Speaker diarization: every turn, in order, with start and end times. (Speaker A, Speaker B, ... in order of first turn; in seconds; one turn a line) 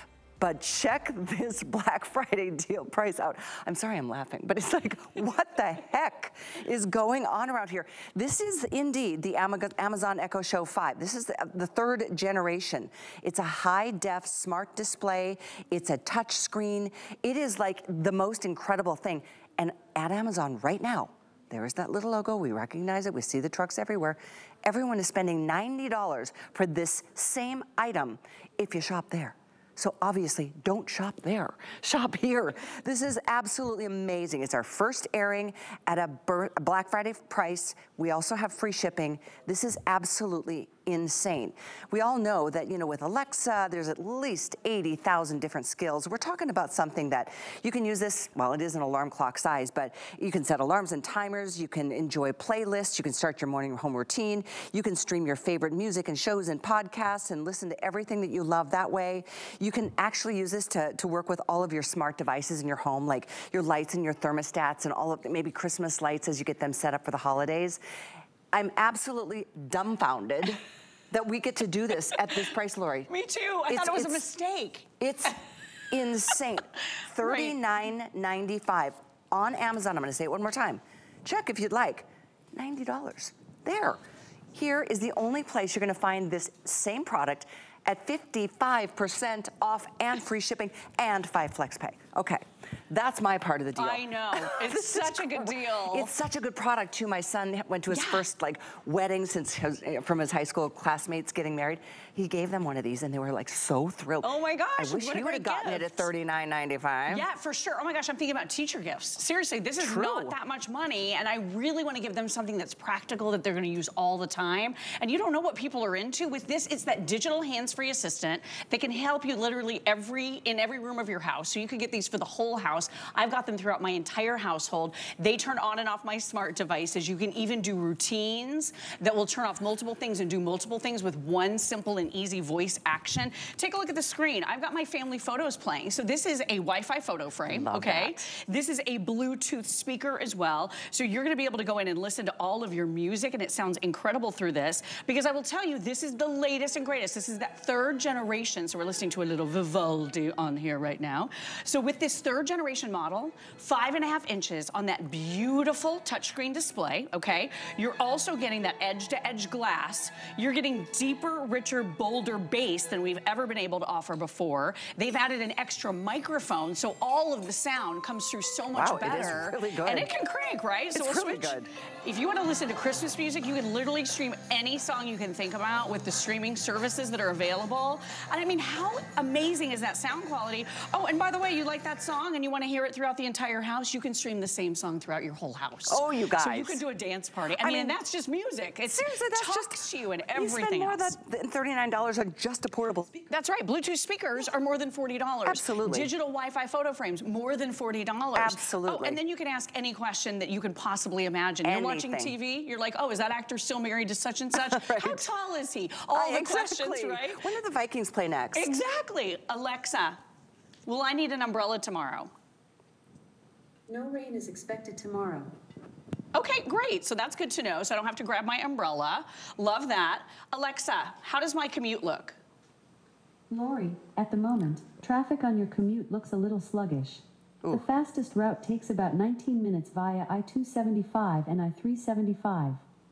Speaker A: 0.4-67.8
Speaker A: 68.5-73.1
Speaker B: 73.1-74.9
Speaker A: 73.7-74.2
Speaker A: 75.0-75.4
Speaker A: 75.9-84.0
Speaker B: 77.2-77.5
Speaker A: 84.5-107.2
Speaker B: 93.8-96.1
Speaker B: 97.9-98.2
Speaker B: 104.2-106.1
Speaker B: 107.1-191.1
Speaker A: 109.8-110.3
Speaker A: 137.5-138.3
Speaker A: 168.7-170.1
Speaker A: 170.9-171.7
Speaker A: 185.9-186.8
Speaker A: 187.6-188.0
Speaker A: 188.8-193.2
Speaker B: 193.3-207.4
Speaker A: 195.4-196.1
Speaker A: 198.3-199.2
Speaker A: 201.6-202.3
Speaker A: 204.5-205.3
Speaker A: 206.1-208.8
Speaker B: 208.5-210.2
Speaker B: 210.8-212.3
Speaker C: 213.9-215.5
Speaker B: 216.3-222.3
Speaker C: 223.5-232.8